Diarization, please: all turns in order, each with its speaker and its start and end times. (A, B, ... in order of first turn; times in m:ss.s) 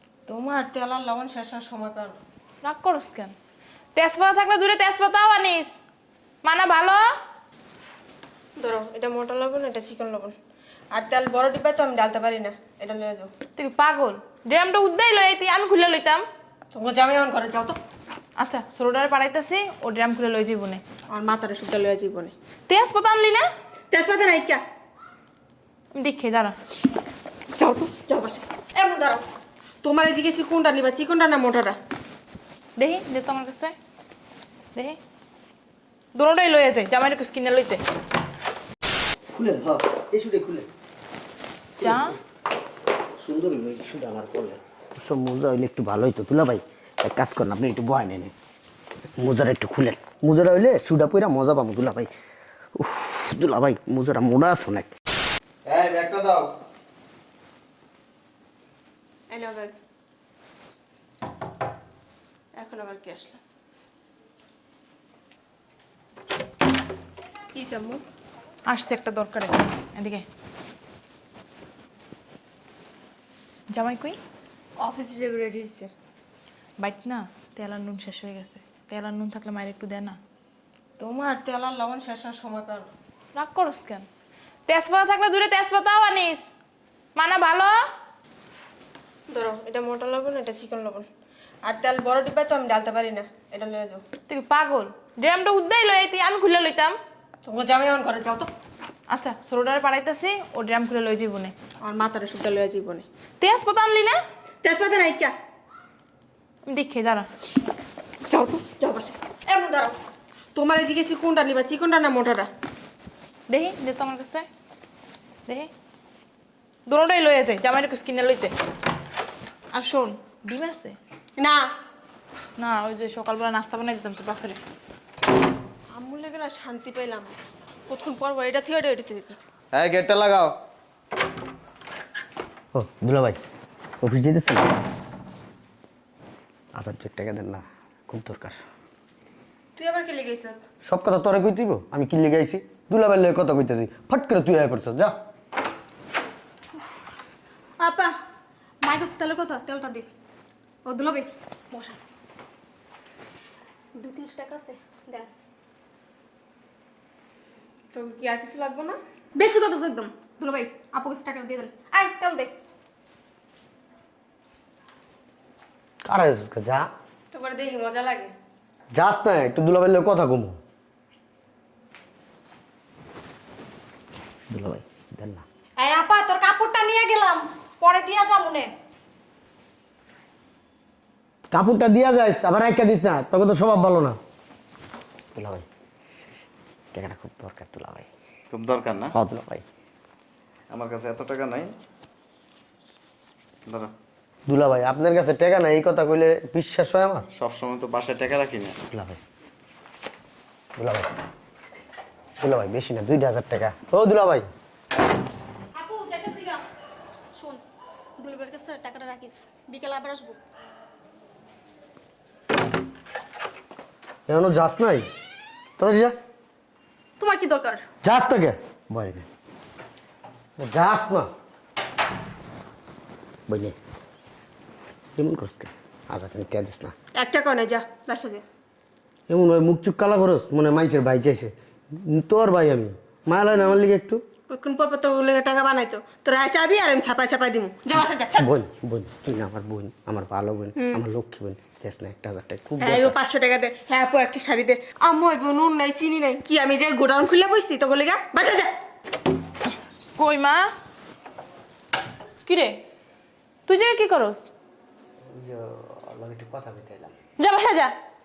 0:00.3-0:02.2 A
0:02.6-0:03.3 B
0:04.0-0:05.8 B
0:06.4-0:07.0 B
0:08.6-0:10.3 A
0:10.9-0:13.3 A
0:13.6-0:16.2 B
0:16.7-0:17.8 A
0:18.4-0:20.8 B
0:21.1-0:22.3 A
0:22.7-0:23.4 B
0:23.9-0:24.6 A
0:26.0-0:26.6 B
0:27.5-0:29.2 A
0:29.8-0:31.8 A
0:32.8-0:33.7 B
0:36.2-0:37.8 B
0:39.3-0:40.7 C
0:41.8-0:42.2 B
0:43.2-0:48.3 C
0:49.2-0:52.1 C
0:52.8-0:54.9 C
0:55.7-0:56.5 D
0:59.3-0:59.8 A
1:02.6-1:03.4 A
1:07.5-1:08.0 A
1:08.7-1:10.2 B
1:13.7-1:14.2 B
1:14.8-1:15.9 A
1:16.8-1:20.2 B
1:21.0-1:22.9 A
1:23.3-1:24.1 B
1:24.7-1:26.5 B
1:27.2-1:27.7 B
1:29.3-1:31.1 A
1:31.6-1:34.0 A
1:34.3-1:37.0 B
1:37.4-1:38.5 A
1:39.1-1:41.5 B
1:41.8-1:43.1 A
1:43.4-1:44.2 B
1:44.6-1:45.3 A
1:46.7-1:47.3 B
1:48.3-1:50.0 A
1:50.6-1:52.5 A
1:53.5-1:54.5 B
1:56.9-1:58.5 B
1:59.7-2:01.0 B
2:02.6-2:04.6 B
2:05.9-2:07.4 A
2:07.9-2:09.4 A
2:09.7-2:10.5 D
2:12.7-2:13.4 C
2:14.0-2:14.7 C
2:16.7-2:18.6 C
2:19.8-2:20.6 A
2:20.8-2:25.1 C
2:27.8-2:28.2 E
2:28.8-2:30.0 E
2:30.8-2:32.0 E
2:34.0-2:35.3 E
2:37.9-2:39.0 A
2:39.3-2:42.5 E
2:46.1-2:46.9 C
2:47.3-2:48.3 A
2:48.9-2:50.6 C
2:54.5-2:55.4 C
2:55.8-2:58.7 E
3:01.5-3:04.2 C
3:05.3-3:05.7 C
3:06.9-3:08.1 C
3:08.5-3:09.1 D
3:09.1-3:09.6 C
3:10.7-3:11.7 D
3:13.7-3:13.9 D
3:14.5-3:17.3 C
3:17.4-3:18.8 D
3:18.9-3:19.2 C
3:20.8-3:21.1 C
3:22.4-3:24.5 C
3:25.7-3:26.6 E
3:27.3-3:27.6 E
3:28.2-3:30.4 E
3:34.3-3:35.0 C
3:35.8-3:36.2 C
3:37.2-3:37.8 A
3:38.0-3:39.3 C
3:40.6-3:41.3 C
3:43.5-3:43.7 C
3:45.2-3:46.9 C
3:47.1-3:48.4 A
3:49.3-3:54.2 C
3:54.5-3:58.5 A
3:58.4-4:03.2 C
4:02.8-4:08.7 A
4:10.2-4:10.7 B
4:12.4-4:12.8 B
4:13.7-4:14.5 B
4:15.3-4:17.1 C
4:17.4-4:17.9 B